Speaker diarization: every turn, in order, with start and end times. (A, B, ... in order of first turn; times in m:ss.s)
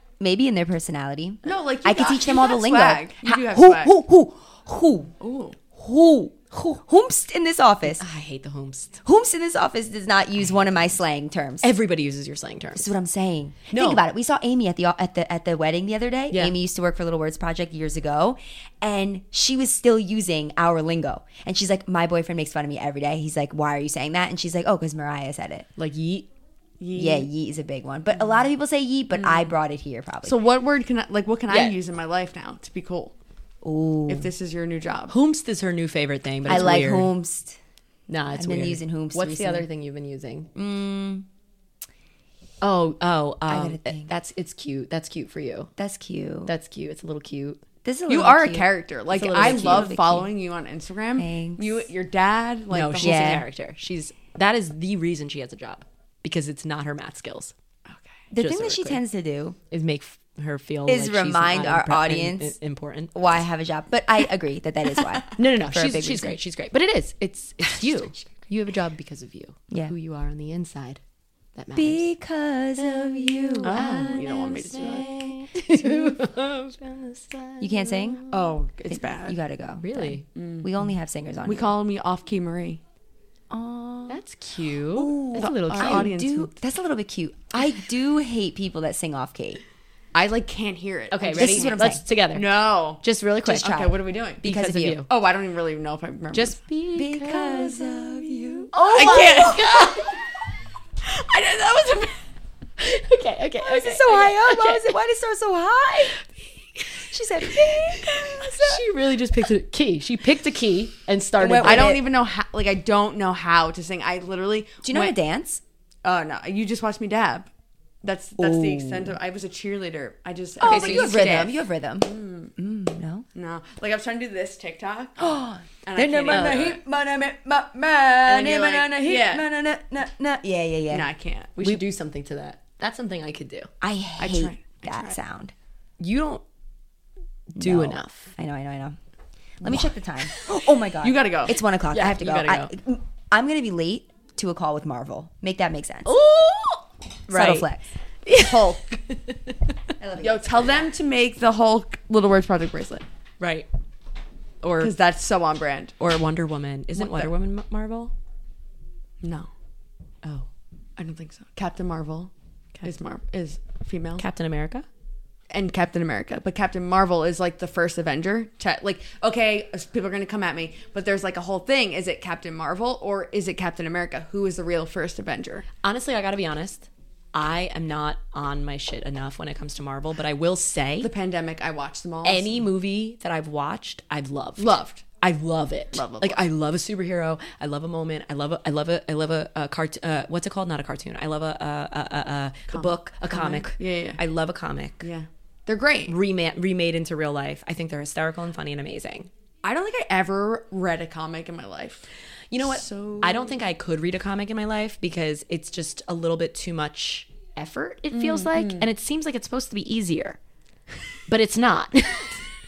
0:00.2-0:05.1 A
0:01.4-0:03.9 B
0:05.2-0:05.6 B
0:05.8-0:08.0 A
0:08.0-0:09.0 C
0:09.0-0:11.7 A
0:11.6-0:12.9 C
0:12.8-0:25.7 A
0:13.7-0:14.0 C
0:16.3-0:16.6 C
0:25.8-0:26.3 C
0:26.8-0:27.3 B
0:26.9-0:30.4 A
0:29.1-0:29.5 B
0:30.2-0:33.1 B
0:31.5-0:31.8 C
0:33.6-0:34.3 A
0:34.1-0:35.1 B
0:35.1-0:37.1 C
0:36.5-0:37.6 A
0:36.5-0:36.8 B
0:38.1-0:40.5 C
0:38.3-0:39.6 A
0:40.6-0:41.3 A
0:42.6-0:45.7 C
0:43.5-0:44.1 A
0:45.8-0:46.5 A
0:46.5-0:47.6 C
0:47.8-0:50.3 A
0:48.1-0:53.4 B
0:49.1-0:50.0 C
0:51.2-0:51.9 A
0:52.7-0:57.5 C
0:53.0-0:53.5 A
0:58.3-0:59.6 A
0:58.4-0:59.0 C
0:59.7-1:03.1 C
1:00.9-1:02.6 A
1:03.1-1:06.4 A
1:05.4-1:11.0 C
1:11.6-1:12.1 C
1:11.8-1:16.2 A
1:12.8-1:18.4 C
1:13.6-1:15.1 B
1:17.6-1:18.2 A
1:18.3-1:19.4 B
1:18.9-1:21.7 A
1:19.8-1:20.2 C
1:20.4-1:20.7 B
1:21.4-1:22.8 B
1:23.5-1:24.2 A
1:24.1-1:26.1 C
1:24.9-1:29.6 A
1:25.3-1:26.5 B
1:30.1-1:31.8 B
1:31.1-1:33.8 C
1:31.4-1:32.0 A
1:32.3-1:34.5 B
1:33.5-1:35.0 A
1:34.4-1:35.1 C
1:35.1-1:36.6 B
1:36.3-1:37.9 C
1:36.9-1:39.6 A
1:38.5-1:40.3 B
1:38.7-1:40.1 C
1:41.0-1:42.2 B
1:42.8-1:44.9 C
1:43.6-1:46.2 A
1:47.0-1:48.6 A
1:48.1-1:48.8 B
1:48.4-1:52.0 C
1:51.4-1:52.0 A
1:51.6-1:55.2 B
1:54.8-1:55.6 A
1:56.0-1:57.5 B
1:58.0-2:02.5 B
1:58.4-1:59.2 A
2:00.6-2:01.4 C
2:00.6-2:03.3 A
2:03.4-2:05.3 B
2:05.2-2:11.1 A
2:05.8-2:06.8 B
2:06.3-2:06.7 C
2:08.2-2:09.5 B
2:10.9-2:11.6 B
2:11.6-2:13.7 C
2:13.8-2:15.5 A
2:14.2-2:15.2 B
2:16.0-2:16.4 C
2:17.6-2:18.3 C
2:17.6-2:19.0 A
2:19.6-2:26.1 A
2:21.0-2:21.6 B
2:21.9-2:22.7 C
2:26.1-2:27.7 C
2:27.3-2:27.8 A
2:28.3-2:29.7 C
2:28.3-2:28.9 B
2:30.0-2:30.9 A
2:30.2-2:33.0 B
2:33.4-2:33.7 C
2:34.6-2:34.9 C
2:34.8-2:36.0 B
2:36.0-2:38.1 C
2:37.0-2:37.3 B
2:39.2-2:39.5 B
2:41.0-2:42.3 B
2:42.8-2:44.2 B
2:44.2-2:44.9 C
2:45.5-2:55.7 B
2:55.8-3:01.1 C
3:01.0-3:02.6 B
3:02.2-3:15.1 C
3:04.6-3:05.0 B
3:05.9-3:06.4 B
3:12.7-3:14.2 B
3:15.0-3:16.1 B
3:16.1-3:19.3 C
3:19.6-3:22.0 B
3:22.5-3:30.4 C
3:22.6-3:23.6 B
3:28.1-3:28.8 B
3:31.3-3:32.4 C